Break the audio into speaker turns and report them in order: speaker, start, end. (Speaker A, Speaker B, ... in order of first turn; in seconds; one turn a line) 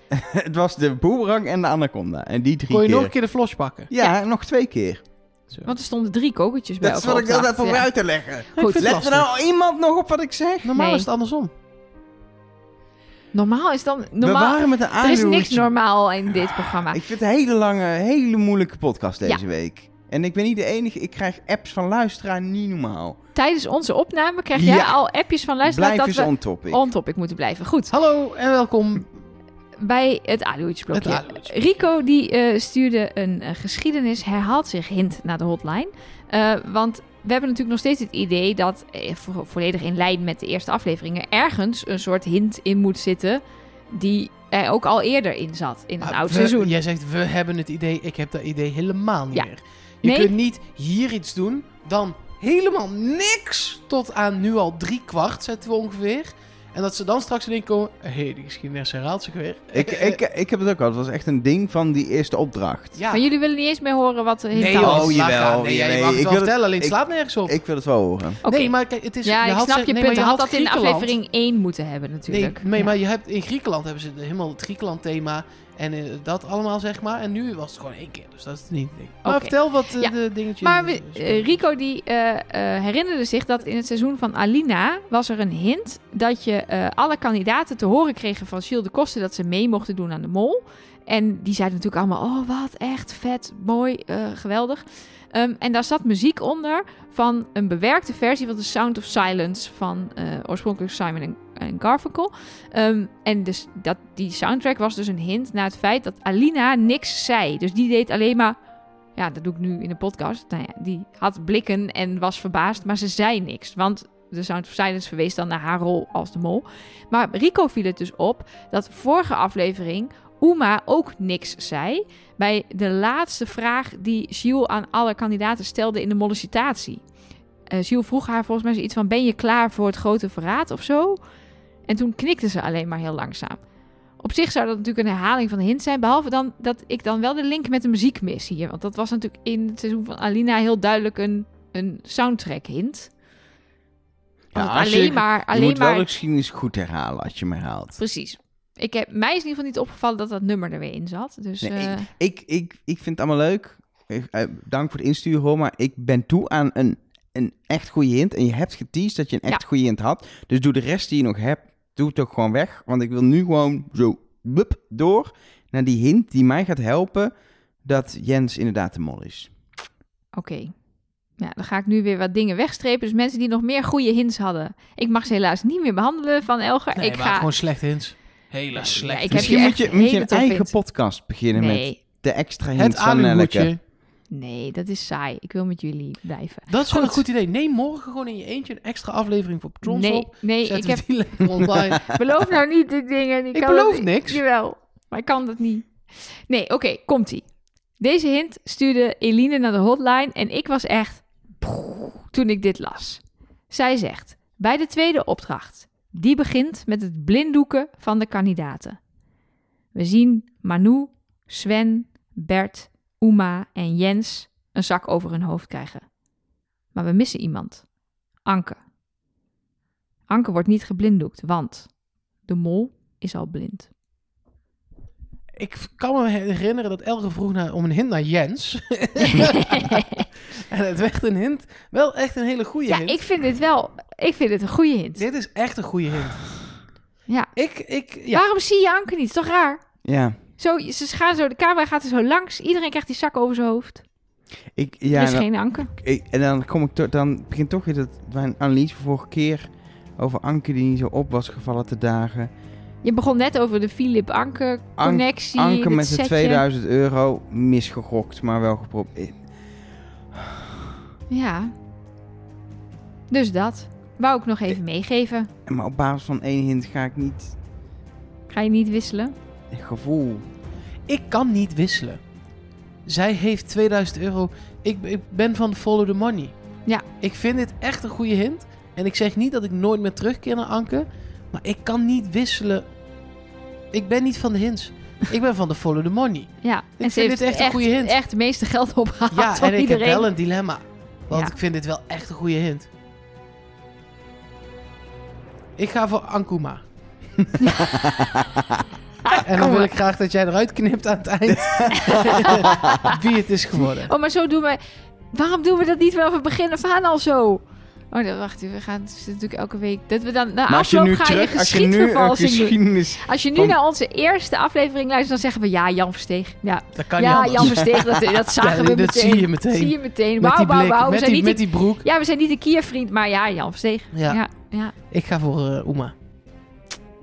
Speaker A: 0.1-3.2
Speaker B: 2.7-3.9
Speaker A: 3.9-5.0
Speaker C: 5.7-8.0
Speaker A: 6.8-10.7
Speaker C: 8.5-9.1
Speaker B: 8.6-9.3
Speaker B: 10.7-11.5
Speaker C: 10.8-11.1
Speaker C: 13.3-17.0
Speaker A: 14.2-15.7
Speaker A: 16.4-23.2
Speaker C: 23.4-27.9
Speaker A: 24.5-25.0
Speaker A: 25.6-26.8
Speaker B: 27.9-29.1
Speaker C: 29.8-46.8
Speaker B: 30.9-31.7
Speaker B: 46.0-60.2
Speaker C: 50.0-50.3
Speaker A: 59.7-63.0
Speaker B: 63.0-63.2
Speaker C: 63.1-65.2
Speaker B: 64.5-67.6
Speaker A: 64.7-68.4
Speaker C: 68.4-72.9
Speaker B: 68.5-71.1
Speaker B: 72.3-81.6
Speaker C: 79.2-108.6
Speaker C: 109.2-127.0
Speaker C: 127.7-131.2
Speaker C: 131.9-133.6
Speaker C: 134.2-143.1
Speaker A: 144.5-148.0
Speaker C: 144.5-146.1
Speaker C: 148.0-152.1
Speaker A: 151.6-167.3
Speaker A: 167.8-169.5
Speaker C: 170.4-170.7
Speaker C: 171.4-177.5
Speaker B: 176.9-179.7
Speaker C: 178.8-180.8
Speaker A: 179.3-183.7
Speaker C: 181.5-182.0
Speaker B: 182.8-183.8
Speaker C: 184.3-187.2
Speaker B: 186.7-192.1
Speaker C: 189.8-197.4
Speaker B: 193.5-194.4
Speaker C: 198.0-209.0
Speaker C: 209.9-216.1
Speaker C: 216.9-217.8
Speaker C: 218.4-218.8
Speaker C: 220.3-221.9
Speaker C: 222.4-223.9
Speaker B: 225.6-233.2
Speaker C: 232.9-235.2
Speaker B: 235.2-236.6
Speaker C: 237.3-237.5
Speaker B: 237.6-238.4
Speaker C: 238.1-244.0
Speaker A: 240.0-240.4
Speaker A: 244.8-252.5
Speaker C: 245.1-245.9
Speaker C: 253.0-256.6
Speaker A: 255.0-259.4
Speaker C: 261.3-261.7
Speaker C: 263.3-265.5
Speaker A: 265.7-267.5
Speaker C: 268.5-269.3
Speaker A: 269.7-270.4
Speaker B: 271.1-272.2
Speaker B: 273.1-282.9
Speaker B: 283.9-288.2
Speaker C: 286.6-290.3
Speaker B: 289.3-292.9
Speaker B: 295.8-296.8
Speaker A: 297.6-298.8
Speaker C: 299.3-299.8
Speaker B: 299.4-304.1
Speaker A: 301.5-303.0
Speaker C: 302.0-303.2
Speaker C: 304.0-304.8
Speaker C: 305.3-324.9
Speaker A: 310.7-313.8
Speaker B: 317.0-322.1
Speaker B: 324.1-326.1